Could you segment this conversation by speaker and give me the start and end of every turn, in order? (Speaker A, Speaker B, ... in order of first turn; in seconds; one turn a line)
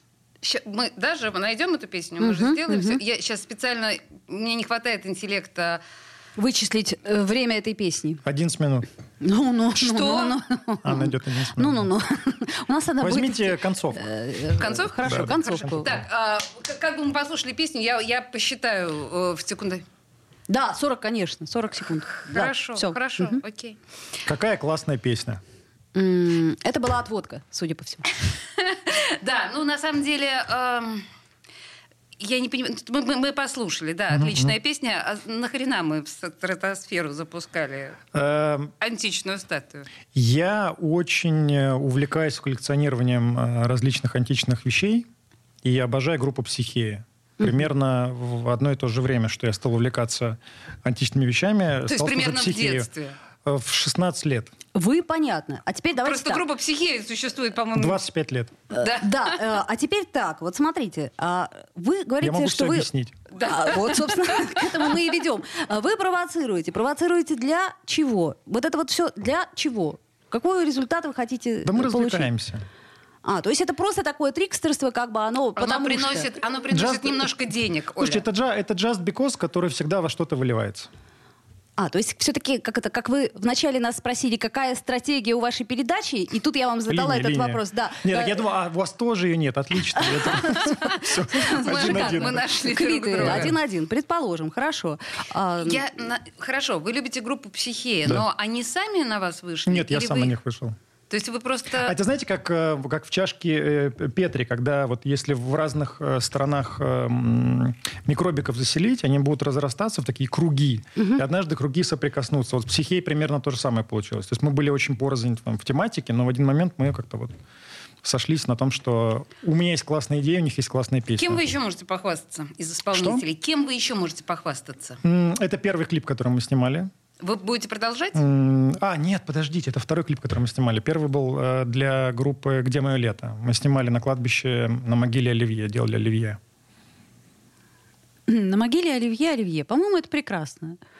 Speaker A: 0.4-5.8
Speaker B: 2.2-3.0
Speaker B: 6.4-8.2
Speaker C: 8.2-8.9
Speaker B: 9.2-15.9
Speaker A: 9.8-10.4
Speaker C: 10.8-11.9
Speaker C: 13.0-14.1
Speaker A: 14.6-19.8
Speaker C: 15.0-16.0
Speaker B: 20.5-23.4
Speaker A: 22.3-23.8
Speaker C: 24.3-25.4
Speaker B: 25.9-28.1
Speaker A: 28.6-31.1
Speaker A: 32.2-38.0
Speaker C: 34.1-34.5
Speaker C: 38.1-38.7
Speaker A: 38.8-39.9
Speaker C: 40.1-45.1
Speaker C: 45.6-52.9
Speaker A: 51.9-53.2
Speaker C: 53.4-54.5
Speaker B: 54.7-56.4
Speaker A: 56.0-58.0
Speaker C: 57.7-58.5
Speaker B: 58.7-72.3
Speaker A: 58.7-59.3
Speaker C: 62.2-63.2
Speaker A: 63.4-64.8
Speaker C: 71.7-72.7
Speaker B: 73.2-76.3
Speaker A: 75.6-78.2
Speaker C: 76.7-77.3
Speaker C: 78.0-80.9
Speaker B: 81.8-88.4
Speaker C: 86.9-92.5
Speaker B: 90.0-95.8
Speaker A: 91.4-93.5
Speaker C: 93.2-93.5
Speaker A: 95.6-100.3
Speaker C: 99.7-100.8
Speaker A: 101.1-102.0
Speaker C: 101.8-117.3
Speaker B: 111.0-111.2
Speaker C: 118.0-121.4
Speaker A: 121.2-125.0
Speaker C: 122.9-123.2
Speaker C: 125.0-126.9
Speaker A: 127.2-128.2
Speaker C: 128.1-136.4
Speaker B: 138.3-140.8